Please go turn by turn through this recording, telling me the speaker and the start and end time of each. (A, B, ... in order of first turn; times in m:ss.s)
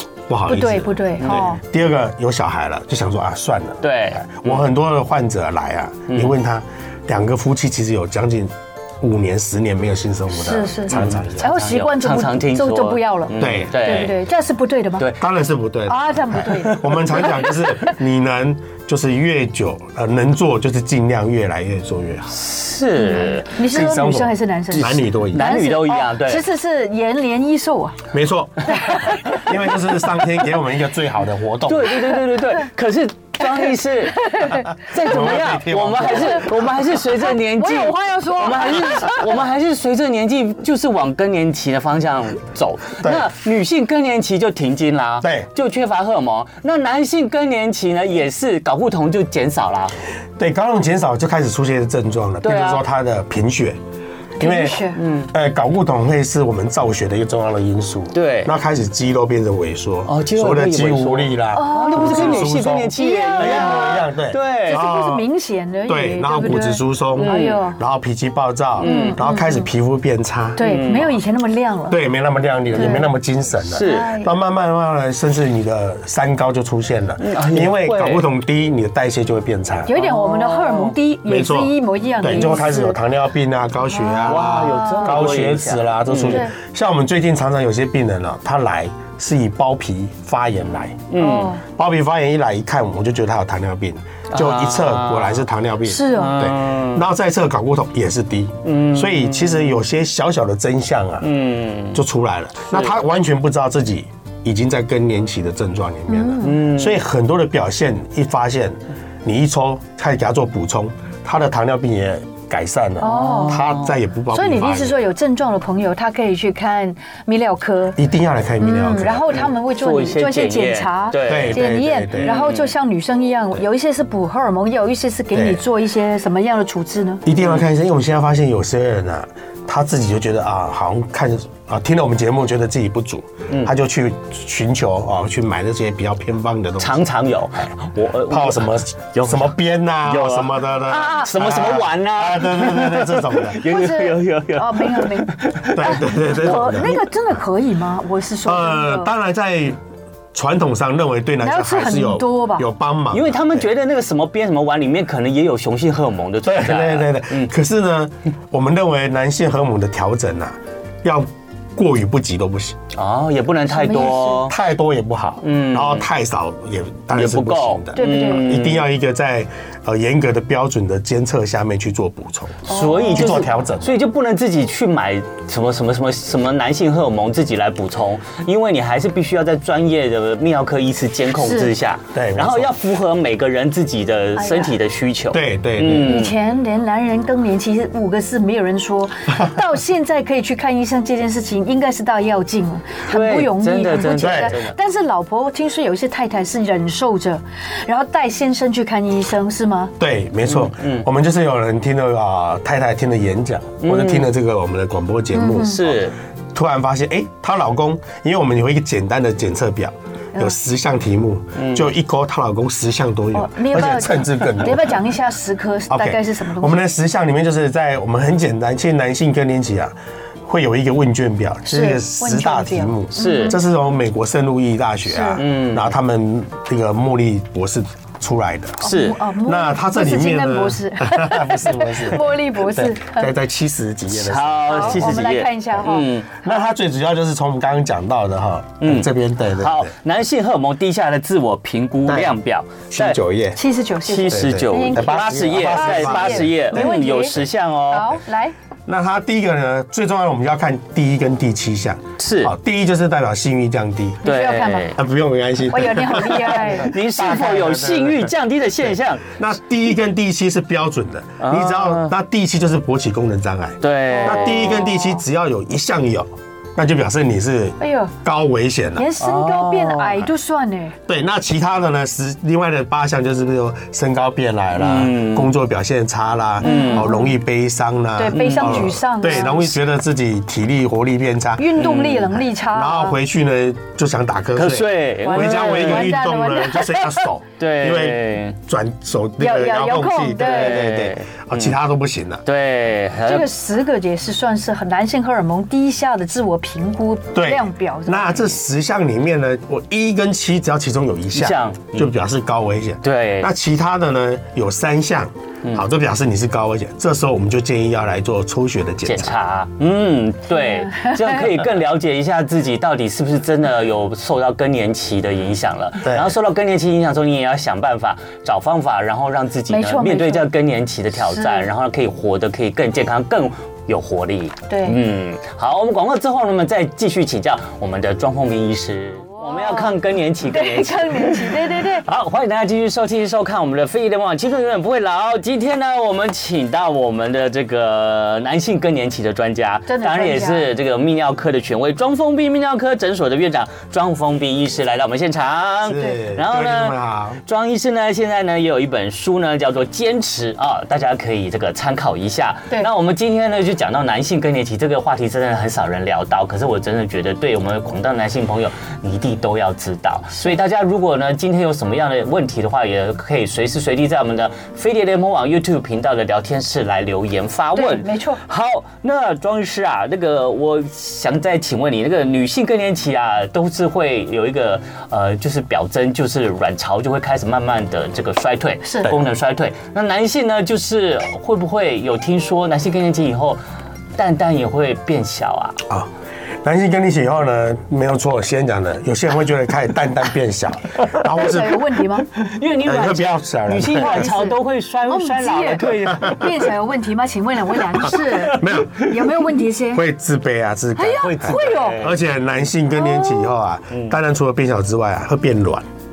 0:00.3-0:11.5 A
0:00.5-0:01.6 B
0:03.8-0:04.6 C
0:06.1-0:06.3 C
0:10.3-0:15.1 B
0:10.9-0:14.2 C
0:13.4-0:13.8 A
0:15.2-0:22.4 A
0:15.9-0:17.9 B
0:16.4-0:17.6 C
0:22.3-0:23.5 C
0:23.0-0:28.0 B
0:23.6-0:25.5 A
0:24.7-0:26.4 C
0:28.1-0:32.0 A
0:28.7-0:29.4 B
0:31.6-0:49.9 C
0:34.1-0:34.7 B
0:34.9-0:36.8 A
0:36.1-0:36.4 B
0:37.0-0:39.3 B
0:43.0-0:43.2 A
0:45.2-0:45.5 A
0:50.4-0:53.8 A
0:52.4-0:52.8 C
0:54.4-0:55.0 B
0:54.4-1:05.2 A
0:54.9-0:55.3 C
0:58.1-0:58.5 C
1:00.0-1:04.8 C
1:01.5-1:04.1 B
1:04.7-1:07.8 B
1:05.9-1:10.6 A
1:07.2-1:07.6 C
1:08.8-1:09.2 C
1:08.8-1:09.6 B
1:10.6-1:12.0 B
1:10.6-1:11.2 C
1:11.9-1:19.9 A
1:12.7-1:13.1 B
1:13.6-1:14.1 C
1:13.8-1:14.3 B
1:17.2-1:18.2 C
1:19.8-1:23.0 B
1:19.9-1:21.0 C
1:21.2-1:31.1 A
1:23.8-1:25.3 B
1:24.2-1:26.4 C
1:26.2-1:26.5 B
1:31.1-1:31.6 C
1:31.2-1:31.6 B
1:31.6-1:41.3 A
1:34.3-1:35.4 C
1:35.8-1:36.4 B
1:36.1-1:37.0 C
1:38.6-1:39.8 C
1:41.2-1:42.0 C
1:41.9-1:55.0 A
1:42.7-1:43.0 C
1:46.1-1:46.6 B
1:46.4-1:47.0 C
1:53.0-1:53.7 B
1:53.0-1:54.0 C
1:54.3-1:58.0 B
1:58.0-1:59.4 A
1:58.6-2:07.2 B
1:59.3-2:02.7 C
2:01.2-2:02.3 A
2:05.3-2:05.6 A
2:07.2-2:17.1 A
2:07.3-2:07.6 C
2:16.8-2:26.8 C
2:18.3-2:23.6 A
2:20.9-2:21.3 B
2:23.6-2:29.1 B
2:25.7-2:27.0 A
2:28.4-2:29.8 A
2:30.3-2:33.6 A
2:31.4-2:32.7 B
2:33.1-2:37.5 C
2:36.4-2:42.8 A
2:42.9-2:44.5 C
2:43.7-2:44.4 B
2:44.4-2:54.0 A
2:45.4-2:46.1 C
2:47.1-2:48.9 C
2:47.9-2:48.6 B
2:52.6-2:53.5 B
2:52.7-3:06.3 C
3:01.4-3:01.7 B
3:02.1-3:02.7 A
3:04.4-3:04.7 B
3:05.3-3:06.2 A
3:05.9-3:19.9 B
3:13.1-3:14.7 C
3:14.2-3:14.6 A
3:20.0-3:35.0 A
3:20.4-3:21.0 C
3:23.8-3:24.3 C
3:25.3-3:25.8 B
3:25.6-3:26.1 C
3:31.6-3:31.9 C
3:33.3-3:36.8 B
3:35.9-3:39.9 A
3:40.4-3:48.8 A
3:41.7-3:43.6 B
3:43.1-3:43.6 C
3:45.0-3:45.4 B
3:45.4-3:45.9 C
3:48.8-3:53.3 B
3:48.8-3:49.2 C
3:49.4-3:55.2 A
3:54.1-3:56.4 C
3:54.7-3:56.1 B
3:56.4-3:59.9 A
3:58.8-4:03.2 C
4:02.0-4:02.4 A
4:02.9-4:03.6 A
4:03.5-4:08.5 B
4:04.0-4:08.2 C
4:04.3-4:06.9 A
4:08.8-4:14.3 A
4:12.2-4:12.5 C
4:14.2-4:14.9 B
4:14.2-4:15.0 C
4:14.9-4:18.3 A
4:15.7-4:16.9 B
4:16.3-4:19.3 C
4:19.3-4:29.1 A
4:21.4-4:22.1 C
4:23.8-4:25.0 C
4:24.1-4:25.1 B
4:27.8-4:28.1 B
4:29.0-4:30.9 B
4:29.2-4:30.3 C
4:31.1-4:41.8 A
4:34.8-4:35.5 C
4:36.6-4:37.2 C
4:36.6-4:37.3 B
4:38.2-4:39.7 B
4:38.3-4:39.6 C
4:41.6-4:43.2 B
4:41.8-4:42.4 C
4:42.5-4:52.4 A
4:44.5-4:46.2 C
4:45.2-4:47.1 B
4:47.6-4:48.6 C
4:49.4-4:50.9 B
4:50.4-4:51.8 C
4:52.4-4:53.5 C
4:53.2-4:58.5 B
4:57.3-5:09.3 A
5:01.3-5:02.1 C
5:03.0-5:03.5 C
5:09.0-6:23.6 C
5:10.5-5:11.6 B
5:16.0-5:16.3 A
5:19.7-5:20.5 B
5:21.2-5:21.7 B
5:24.7-5:25.0 B
5:29.4-5:29.9 B
5:30.4-5:32.0 B
5:39.9-5:40.7 B
5:45.8-5:47.4 A
6:07.7-6:08.4 B
6:18.8-6:19.1 B
6:24.2-6:25.8 C
6:26.6-6:31.8 A
6:31.2-6:32.3 B
6:32.4-6:36.6 C
6:32.8-6:34.3 A
6:33.9-6:40.0 B
6:38.0-6:39.2 C
6:38.0-6:39.1 A
6:39.9-6:45.8 A
6:41.0-6:42.0 B
6:41.2-6:42.2 C
6:43.0-6:43.6 B